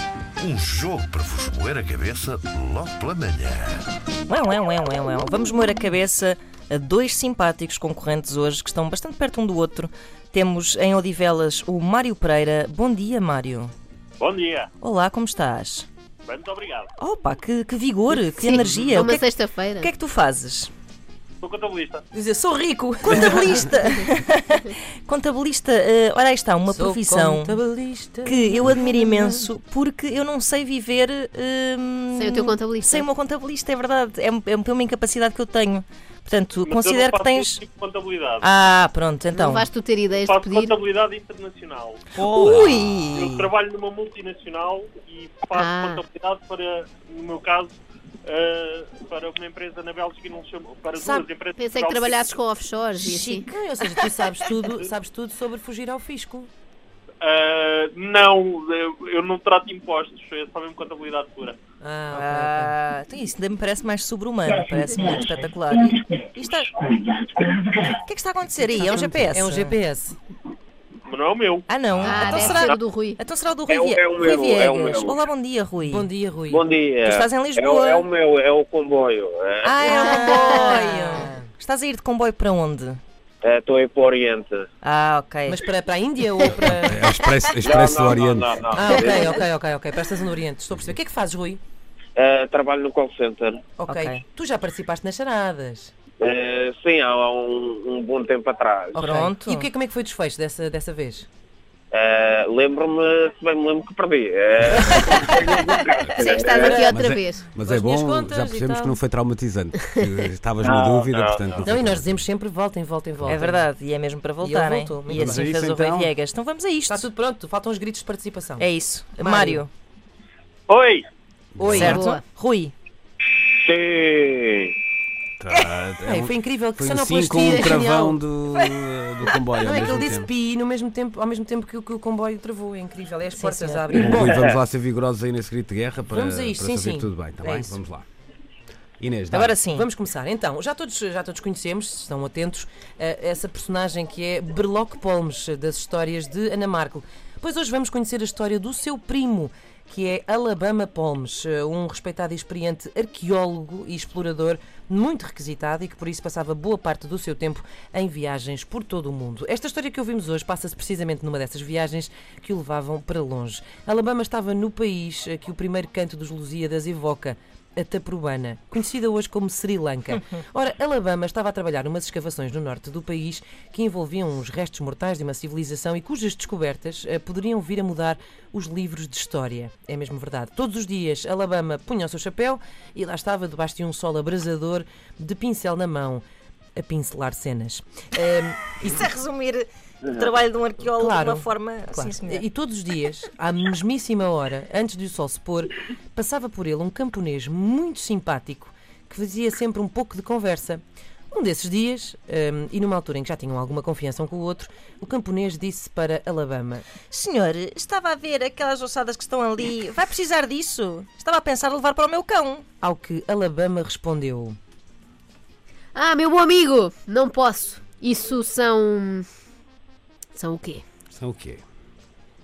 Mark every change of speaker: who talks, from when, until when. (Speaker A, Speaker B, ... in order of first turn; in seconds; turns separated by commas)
Speaker A: 0.4-3.9, Speaker B: 4.3-13.7, Speaker C: 14.2-14.7, Speaker B: 14.8-15.9, Speaker C: 16.3-16.9, Speaker B: 17.0-20.7, Speaker D: 18.3-19.9, Speaker C: 21.4-22.0, Speaker E: 22.1-23.7, Speaker B: 23.0-27.6, Speaker E: 26.7-29.5, Speaker B: 28.2-37.6, Speaker D: 32.1-33.1, Speaker C: 36.7-38.5, Speaker B: 38.4-39.7, Speaker D: 39.3-40.8, Speaker C: 40.1-42.0, Speaker B: 42.2-43.5, Speaker C: 43.1-52.4, Speaker D: 45.5-46.0, Speaker E: 51.0-51.3, Speaker D: 51.5-53.5, Speaker E: 53.0-56.5, Speaker C: 57.2-61.6, Speaker E: 61.8-62.7, Speaker B: 62.1-66.7, Speaker B: 67.7-69.8, Speaker E: 68.6-70.2, Speaker C: 71.1-71.7, Speaker B: 71.7-76.1, Speaker D: 72.0-73.2, Speaker F: 73.7-75.2, Speaker E: 75.8-76.6, Speaker F: 76.5-79.9, Speaker B: 77.0-78.1, Speaker B: 79.6-83.0, Speaker E: 79.8-81.5, Speaker D: 79.9-80.8, Speaker F: 83.4-84.7, Speaker B: 84.8-85.6, Speaker E: 85.5-87.1, Speaker G: 86.5-88.7, Speaker F: 87.6-89.4, Speaker E: 88.7-91.6, Speaker F: 92.2-93.6, Speaker E: 93.8-95.9, Speaker B: 93.9-94.2, Speaker F: 96.2-99.0, Speaker B: 99.0-99.7, Speaker E: 99.0-101.3, Speaker F: 101.9-106.8, Speaker E: 104.8-105.1, Speaker G: 105.8-112.2, Speaker D: 106.2-107.5, Speaker E: 106.7-107.0, Speaker E: 107.7-108.9, Speaker B: 107.7-108.7, Speaker F: 110.6-111.5, Speaker E: 111.6-113.7, Speaker B: 113.2-117.0, Speaker E: 114.4-115.5, Speaker G: 115.1-116.1, Speaker E: 116.9-118.7, Speaker B: 118.6-119.7, Speaker E: 119.2-119.6, Speaker C: 120.7-121.1, Speaker G: 121.5-122.1, Speaker E: 121.6-122.1, Speaker B: 121.7-122.7, Speaker D: 121.8-122.2, Speaker F: 123.6-124.7, Speaker G: 125.4-130.3, Speaker E: 126.0-128.2, Speaker E: 129.6-134.4, Speaker B: 133.3-134.2, Speaker G: 133.9-138.1, Speaker E: 136.1-137.8, Speaker G: 139.0-139.6, Speaker B: 139.3-139.9, Speaker E: 139.6-186.2, Speaker E: 186.8-189.0, Speaker B: 188.8-192.4, Speaker E: 190.9-206.9, Speaker B: 207.1-212.7, Speaker E: 212.8-214.6, Speaker D: 215.9-219.3, Speaker D: 220.3-220.8, Speaker G: 221.1-221.6